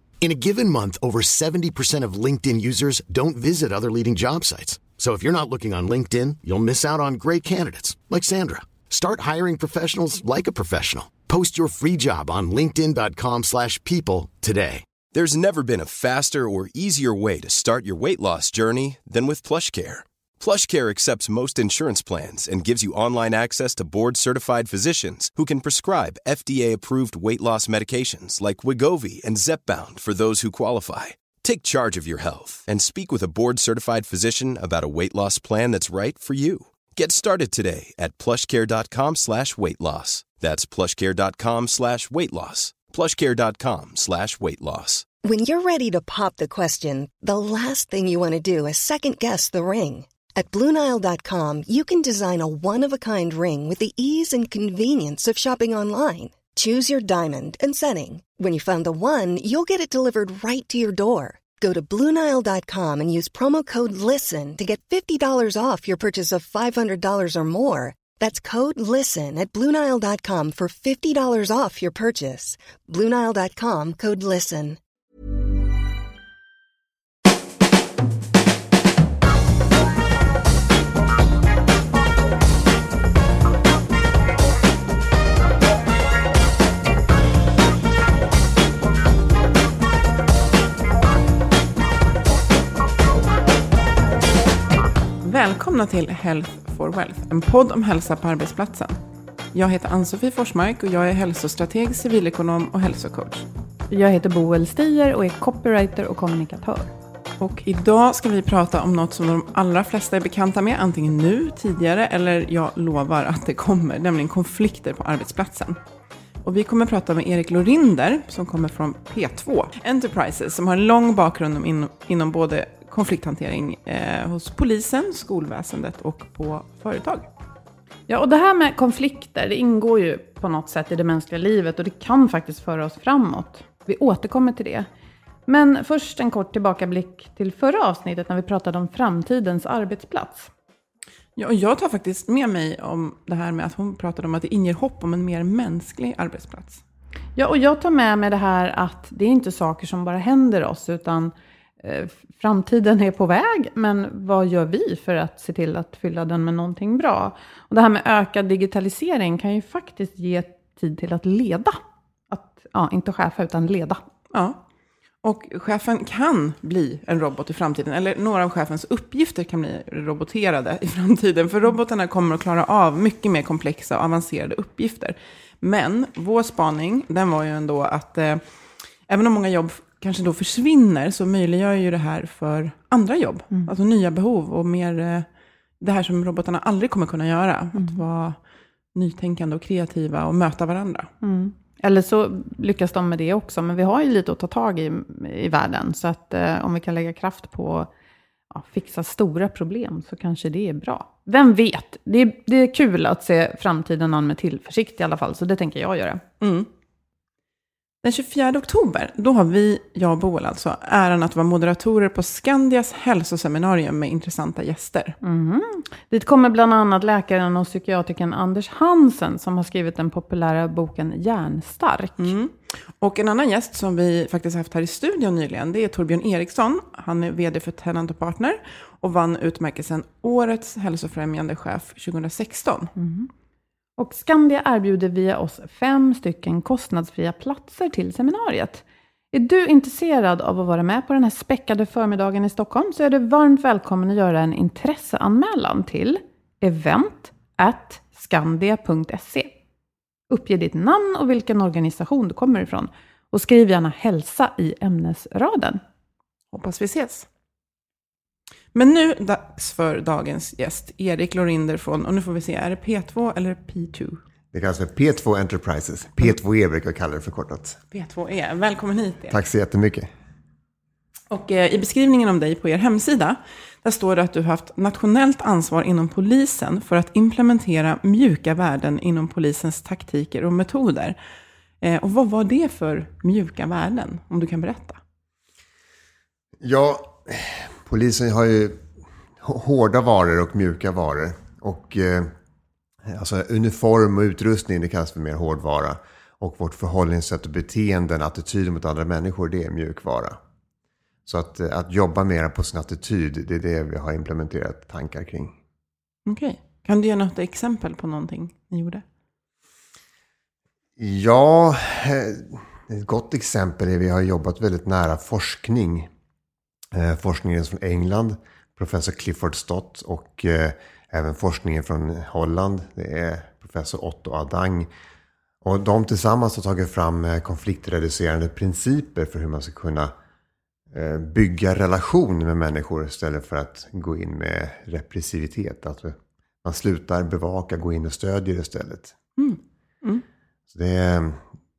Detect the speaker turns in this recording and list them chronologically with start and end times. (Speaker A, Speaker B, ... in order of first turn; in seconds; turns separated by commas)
Speaker A: 0.2-14.8, Speaker B: 15.1-45.0, Speaker C: 45.2-74.8, Speaker D: 95.2-99.0, Speaker D: 99.5-103.5, Speaker E: 103.9-106.9, Speaker D: 107.4-115.8, Speaker D: 116.4-127.3, Speaker E: 128.1-134.9, Speaker E: 135.5-140.5, Speaker D: 141.4-146.8, Speaker E: 147.3-161.8, Speaker E: 162.3-164.0, Speaker D: 164.3-164.6, Speaker D: 165.2-178.4, Speaker D: 179.1-185.2, Speaker D: 185.8-188.4, Speaker D: 188.9-191.1, Speaker E: 191.2-197.9, Speaker E: 198.5-206.2, Speaker D: 206.4-206.7, Speaker D: 208.0-215.2, Speaker E: 215.2-222.3, Speaker D: 222.2-232.9, Speaker E: 233.0-233.3, Speaker E: 234.0-249.5, Speaker E: 250.3-255.8, Speaker D: 256.5-257.3, Speaker D: 258.7-264.2, Speaker F: 264.5-267.8, Speaker D: 267.9-269.4, Speaker F: 269.3-270.1, Speaker D: 271.3-281.1, Speaker D: 281.8-285.0, Speaker F: 286.6-288.8, Speaker F: 289.4-292.3, Speaker F: 293.1-300.4, Speaker F: 301.2-305.6, Speaker D: 306.2-309.0, Speaker F: 311.0-316.1, Speaker F: 316.9-324.9, Speaker F: 325.6-330.1, Speaker F: 330.9-339.1, Speaker D: 339.4-340.2, Speaker F: 340.7-341.4